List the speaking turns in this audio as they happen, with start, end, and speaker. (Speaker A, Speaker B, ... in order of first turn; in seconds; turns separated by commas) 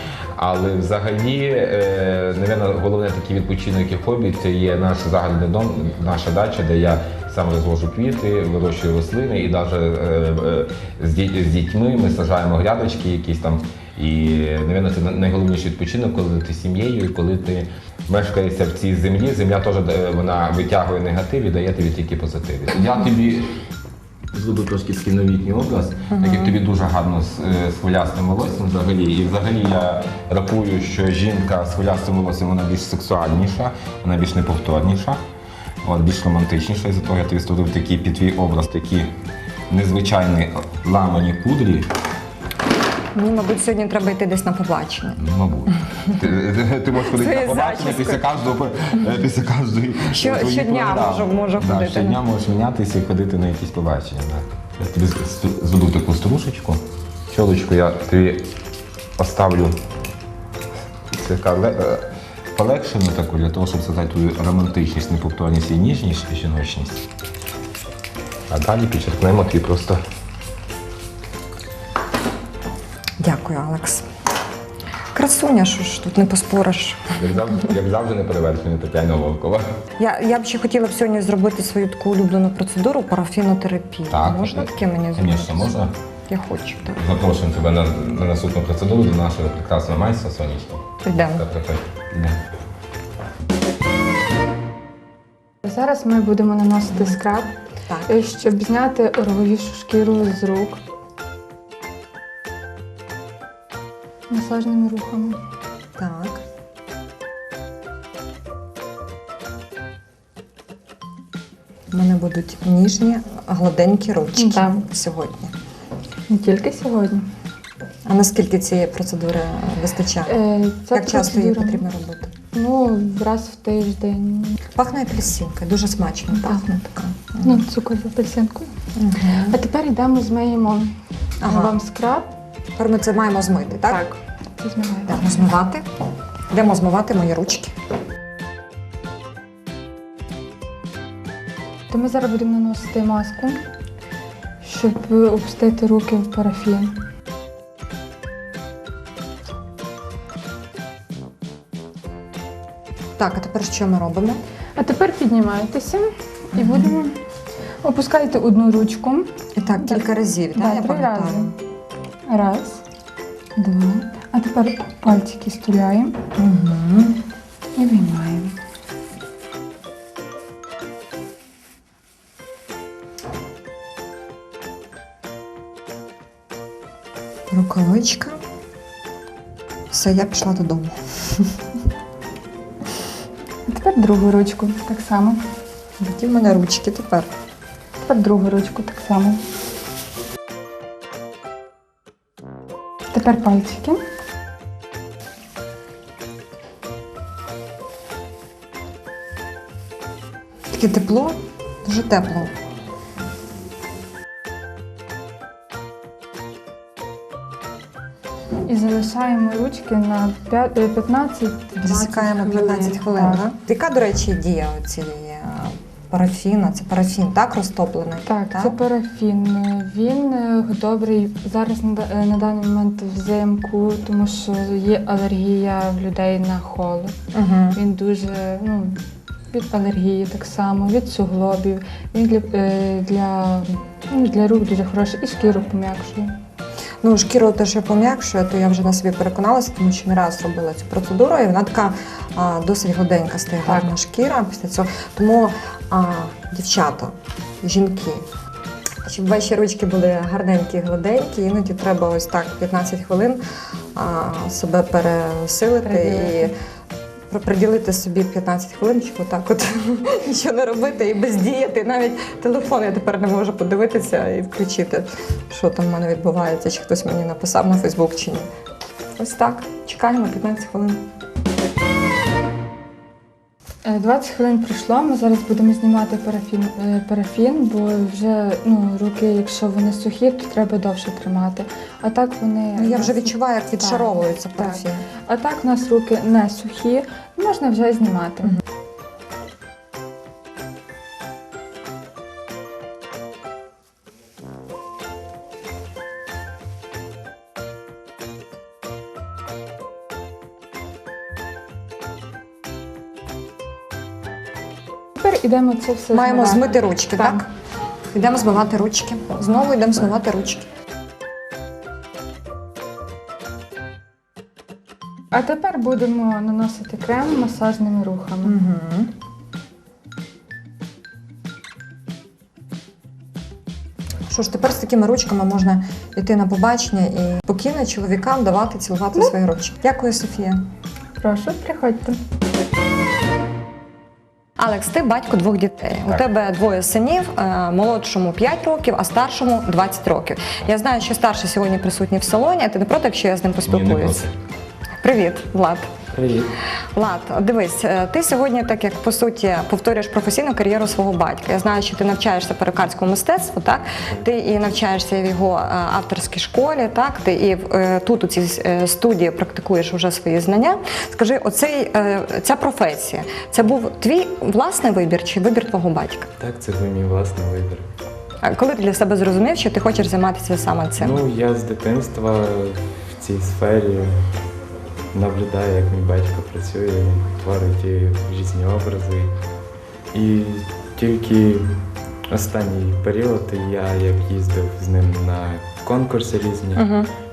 Speaker A: 0.3-23.5, Speaker A: 24.3-35.2, Speaker B: 26.1-26.6, Speaker A: 35.8-39.1, Speaker A: 39.7-41.9, Speaker B: 43.1-45.2, Speaker A: 45.2-58.5, Speaker B: 47.0-48.2, Speaker B: 50.1-52.2, Speaker A: 59.2-59.8, Speaker A: 61.1-67.0, Speaker A: 68.5-70.0, Speaker B: 73.2-74.0, Speaker B: 75.1-77.2, Speaker A: 77.2-79.6, Speaker B: 80.0-85.7, Speaker A: 84.1-85.9, Speaker B: 86.3-87.0, Speaker A: 87.0-92.4, Speaker B: 91.0-91.4, Speaker C: 95.6-97.5, Speaker B: 97.9-98.1, Speaker C: 98.1-100.8, Speaker C: 104.3-105.4, Speaker B: 106.0-106.4, Speaker B: 111.9-115.5, Speaker C: 114.4-114.8, Speaker C: 116.3-117.2, Speaker B: 118.0-120.4, Speaker C: 120.3-121.8, Speaker B: 120.9-122.3, Speaker C: 122.5-124.6, Speaker B: 124.8-127.6, Speaker C: 127.4-128.7, Speaker B: 128.9-129.6, Speaker C: 129.5-132.3, Speaker B: 131.4-131.7, Speaker B: 132.8-134.0, Speaker C: 133.9-135.4, Speaker B: 135.1-135.8, Speaker B: 136.5-137.7, Speaker C: 141.9-143.6, Speaker C: 144.6-146.9, Speaker B: 153.2-154.4, Speaker C: 154.8-157.2, Speaker B: 156.6-156.9, Speaker C: 157.8-161.5, Speaker B: 159.6-161.5, Speaker C: 162.3-162.8, Speaker C: 163.6-166.2, Speaker B: 166.4-167.2, Speaker C: 167.8-168.5, Speaker B: 177.5-178.4, Speaker B: 179.9-181.5, Speaker C: 183.7-185.4, Speaker B: 186.0-187.3, Speaker C: 188.0-189.4, Speaker C: 193.1-194.0, Speaker B: 200.7-202.5, Speaker C: 208.7-213.4, Speaker B: 211.8-218.8, Speaker C: 218.3-227.1, Speaker B: 227.3-227.8, Speaker C: 227.7-236.3, Speaker B: 237.0-248.2, Speaker C: 243.7-243.9, Speaker B: 249.1-253.4, Speaker B: 253.9-256.5, Speaker C: 255.8-256.5, Speaker B: 257.3-268.5, Speaker B: 269.2-271.0, Speaker C: 273.8-288.6, Speaker B: 282.8-285.1, Speaker C: 305.1-307.4, Speaker B: 306.1-307.5, Speaker B: 308.1-310.7, Speaker C: 315.3-318.6, Speaker B: 318.4-319.1, Speaker B: 324.3-330.6, Speaker C: 331.2-332.2, Speaker B: 334.6-344.2, Speaker A: 343.6-344.3, Speaker B: 345.0-345.9, Speaker D: 346.1-346.5, Speaker B: 346.9-366.3, Speaker D: 366.4-367.9, Speaker B: 368.4-371.2, Speaker D: 371.0-374.2, Speaker D: 375.1-379.4, Speaker D: 380.1-381.8, Speaker D: 382.3-386.9, Speaker B: 386.8-387.1